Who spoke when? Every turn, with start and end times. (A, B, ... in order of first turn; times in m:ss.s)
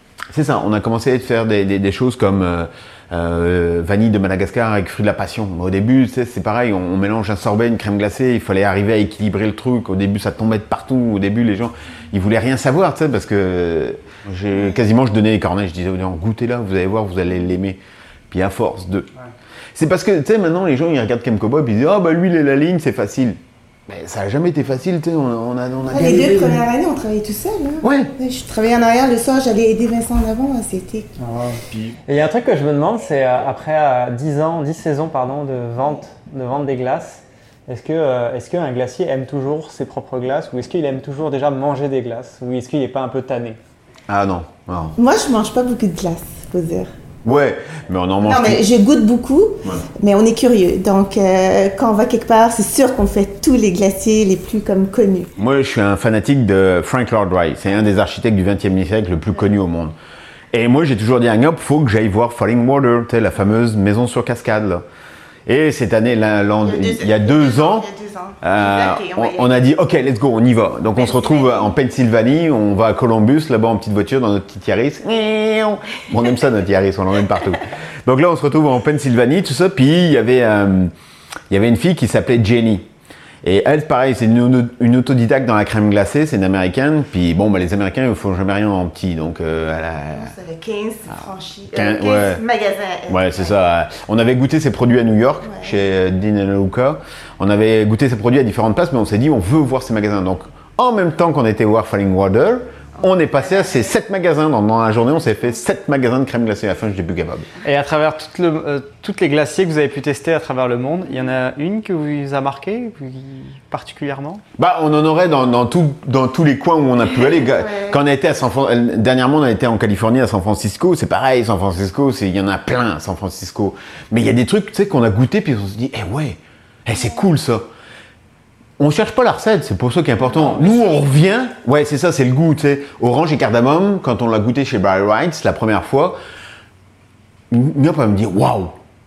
0:00.3-0:17.8 A
0:18.3-0:19.1 A
0:19.7-0:26.6 A
0:25.9-0:31.1 B
0:27.8-0:28.1 A
0:31.2-0:43.6 C
0:44.1-0:45.0 A
0:45.0-0:46.9 B
0:47.2-0:48.6 A
0:48.2-0:55.3 B
0:55.4-0:59.9 A
1:00.5-1:04.8 A
1:05.4-1:07.9 A
1:06.7-1:09.5 B
1:08.4-1:20.9 A
1:11.0-1:11.7 B
1:21.5-1:22.9 A
1:23.4-1:30.3 A
1:30.1-1:33.5 B
1:31.7-1:32.4 A
1:33.1-1:47.5 A
1:47.6-1:54.4 C
1:54.6-2:07.6 A
2:08.8-2:16.2 A
2:17.5-2:18.8 A